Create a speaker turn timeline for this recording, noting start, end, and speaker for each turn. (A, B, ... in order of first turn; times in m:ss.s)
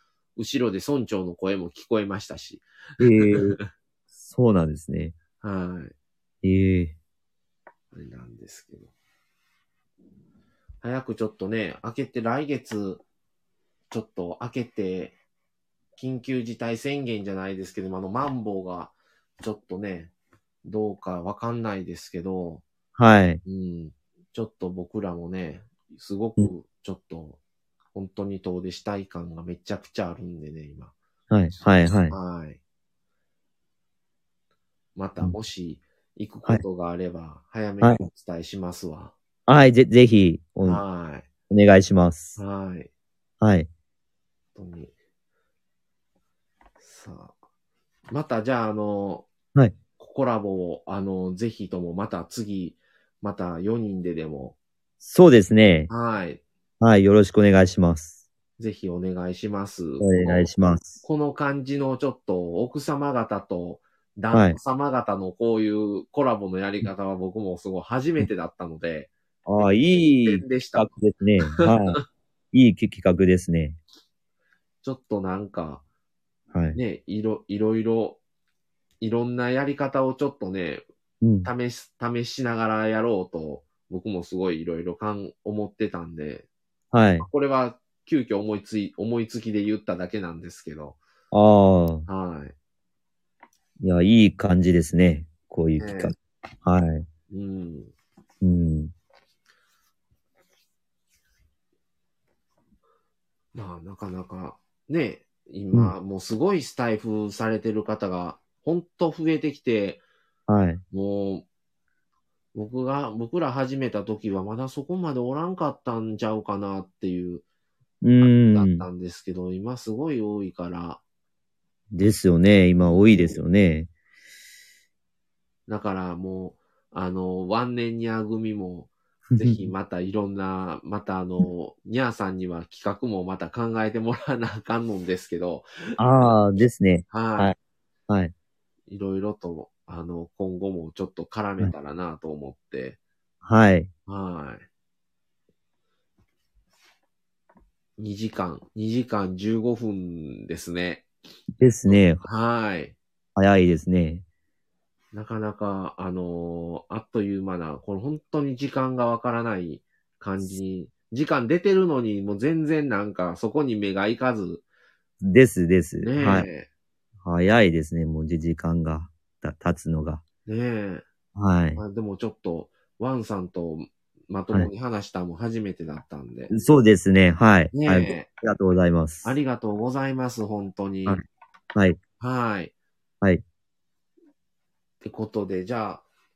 0:00.4-0:03.4 A
0:03.0-0:03.6 B
0:04.2-0:05.2 B
0:05.4-0:05.9 A
0:06.4-0:07.0 B
0:07.9-0:08.9 A
0:10.8-0:13.0 A
0:13.9-0:15.2 A
0:16.0-0:20.1 A
0:20.6-0:22.6 A
0:23.0-0:23.4 B
0:23.4-0:27.4 A
0:27.9-0:30.9 A
0:31.3-0:32.2 B
0:31.5-0:32.6 A
0:35.0-0:39.1 A
0:37.8-0:38.1 B
0:39.5-0:40.8 B
0:40.6-0:41.3 A
0:41.5-0:42.4 B
0:42.4-0:42.9 A
0:43.4-0:43.7 B
0:44.6-0:44.9 A
0:46.8-0:47.3 A
0:48.1-0:49.3 A
0:50.0-0:54.6 A
0:55.0-0:55.9 B
0:55.9-0:56.4 A
0:56.8-0:58.2 B
0:58.6-1:09.1 A
1:00.0-1:01.0 B
1:04.3-1:04.6 B
1:09.4-1:12.0 B
1:10.1-1:10.9 A
1:12.5-1:13.8 B
1:14.8-1:15.8 A
1:16.5-1:16.8 B
1:16.7-1:18.2 A
1:19.0-1:20.8 A
1:21.2-1:21.5 B
1:21.4-1:26.4 A
1:26.9-1:27.3 B
1:27.2-1:31.0 A
1:31.3-1:32.0 B
1:32.1-1:32.5 A
1:33.8-1:37.0 B
1:35.8-1:36.1 A
1:37.3-1:37.9 A
1:38.4-1:38.9 B
1:43.5-1:50.0 A
1:50.5-1:50.8 B
1:50.9-1:51.4 A
1:52.5-1:57.4 A
1:58.0-1:58.9 B
1:58.2-2:01.0 A
2:01.9-2:03.9 B
2:02.8-2:03.4 A
2:05.7-2:15.7 A
2:09.3-2:09.7 B
2:16.0-2:17.6 B
2:17.1-2:17.5 A
2:18.9-2:23.0 A
2:23.4-2:23.9 B
2:24.1-2:24.6 A
2:28.0-2:31.1 A
2:31.6-2:32.2 B
2:32.2-2:33.0 A
2:33.4-2:34.2 B
2:35.1-2:44.6 A
2:45.2-2:46.5 B
2:46.0-2:46.7 A
2:47.2-2:50.2 B
2:50.5-2:51.0 A
2:51.3-2:51.8 B
2:51.8-2:56.5 A
2:56.5-2:59.3 B
2:57.7-2:58.3 A
2:59.2-3:01.2 A
3:01.7-3:02.0 B
3:02.2-3:02.7 A
3:05.0-3:06.0 A